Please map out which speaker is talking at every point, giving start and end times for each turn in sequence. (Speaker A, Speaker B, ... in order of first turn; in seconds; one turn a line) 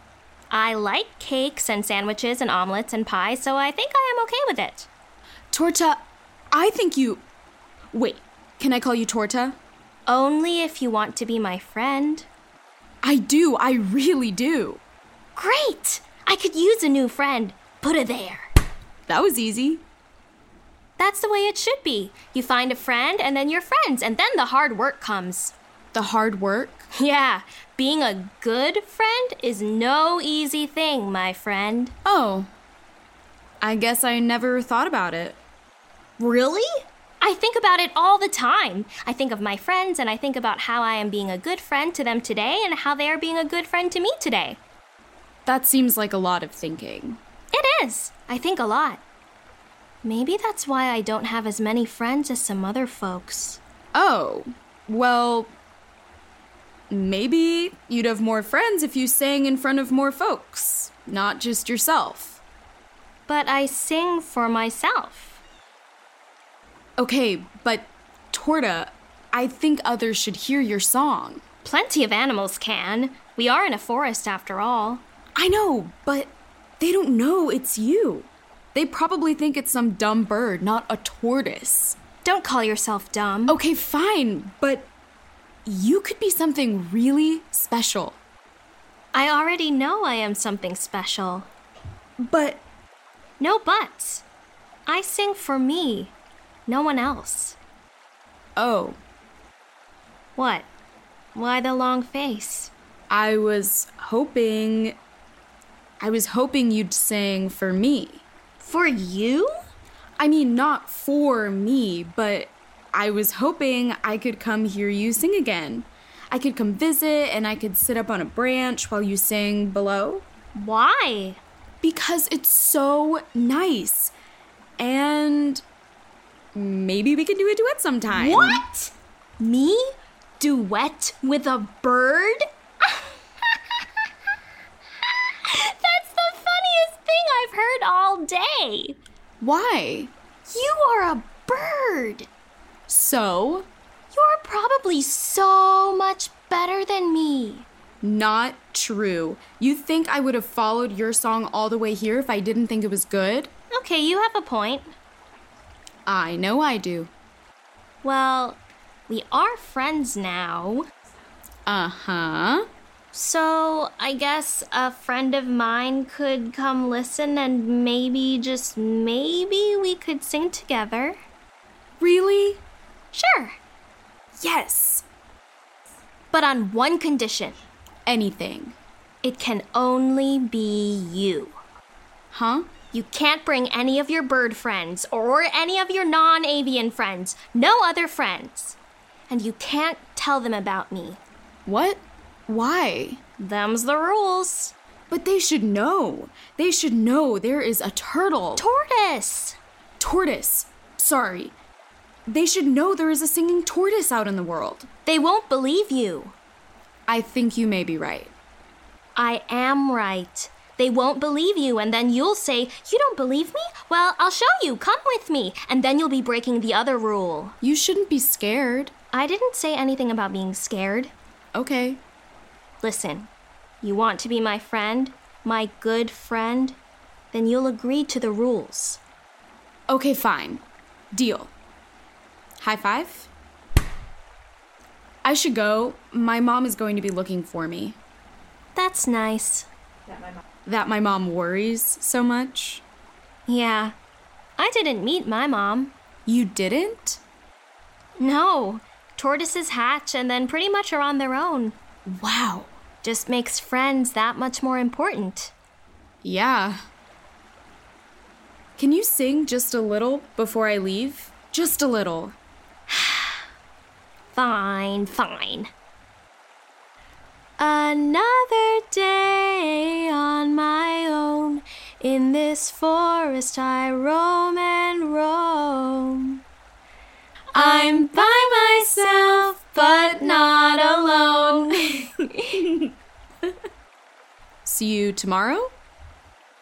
Speaker A: 0.5-4.9
Speaker B: 5.5-7.2
Speaker B: 7.9-9.6
Speaker A: 10.1-12.3
Speaker B: 13.0-14.8
Speaker A: 15.4-18.5
Speaker B: 19.1-19.8
Speaker A: 21.0-25.5
Speaker B: 25.9-26.9
Speaker A: 26.9-31.9
Speaker B: 32.0-32.5
Speaker B: 33.6-35.4
Speaker A: 36.2-36.7
Speaker A: 37.2-44.6
Speaker B: 45.5-47.2
Speaker A: 47.5-49.0
Speaker A: 50.0-53.6
Speaker B: 53.9-55.5
Speaker B: 56.9-62.4
Speaker A: 63.3-65.4
Speaker B: 67.0-71.4
Speaker A: 71.7-75.0
Speaker B: 75.4-82.0
Speaker A: 82.2-83.6
Speaker B: 83.5-84.9
Speaker B: 85.7-88.2
Speaker A: 89.1-91.5
Speaker B: 92.2-92.6
Speaker A: 93.4-94.2
Speaker A: 94.9-96.1
Speaker A: 96.7-97.6
Speaker B: 98.6-99.0
Speaker A: 100.4-100.7
Speaker A: 101.3-102.7
Speaker B: 103.1-105.0
Speaker B: 106.0-108.2
Speaker A: 108.6-109.5
Speaker B: 110.2-120.2
Speaker A: 120.5-121.4
Speaker B: 121.8-124.1
Speaker B: 124.8-125.6
Speaker B: 126.5-128.6
Speaker A: 128.1-133.6
Speaker A: 135.4-139.0
Speaker B: 139.4-140.1
Speaker A: 140.5-142.3
Speaker B: 142.9-143.7
Speaker A: 144.1-147.7
Speaker B: 148.0-153.5
Speaker A: 153.7-154.9
Speaker B: 156.1-157.1
Speaker A: 158.0-160.9
Speaker B: 161.7-162.7
Speaker A: 163.1-171.2
Speaker B: 172.0-172.6
Speaker A: 173.1-173.6
Speaker B: 174.4-175.1
Speaker A: 176.3-177.6
Speaker B: 178.1-178.8
Speaker A: 179.2-181.6
Speaker B: 182.3-182.7
Speaker A: 182.9-188.8
Speaker A: 189.3-191.2
Speaker B: 191.7-193.2
Speaker A: 193.4-194.7
Speaker B: 195.1-198.7
Speaker A: 198.6-199.6
Speaker B: 200.0-201.6
Speaker B: 202.3-204.9
Speaker A: 205.1-206.3
Speaker B: 207.1-208.3
Speaker A: 209.2-217.6
Speaker B: 217.6-218.9
Speaker A: 219.1-221.1
Speaker B: 221.6-222.0
Speaker A: 222.8-223.3
Speaker A: 223.8-226.8
Speaker A: 227.3-229.0
Speaker B: 229.9-231.5
Speaker B: 232.6-233.3
Speaker B: 235.2-238.0
Speaker A: 238.8-239.7
Speaker B: 240.7-242.8
Speaker A: 243.5-243.9
Speaker A: 244.6-245.9
Speaker B: 246.3-247.2
Speaker A: 248.2-251.8
Speaker B: 252.1-252.8
Speaker A: 253.0-255.5
Speaker B: 256.2-256.8
Speaker B: 258.8-262.4
Speaker A: 262.9-263.2
Speaker A: 264.3-265.7
Speaker A: 267.6-276.4
Speaker B: 277.5-280.4
Speaker A: 277.5-282.9
Speaker B: 284.6-285.7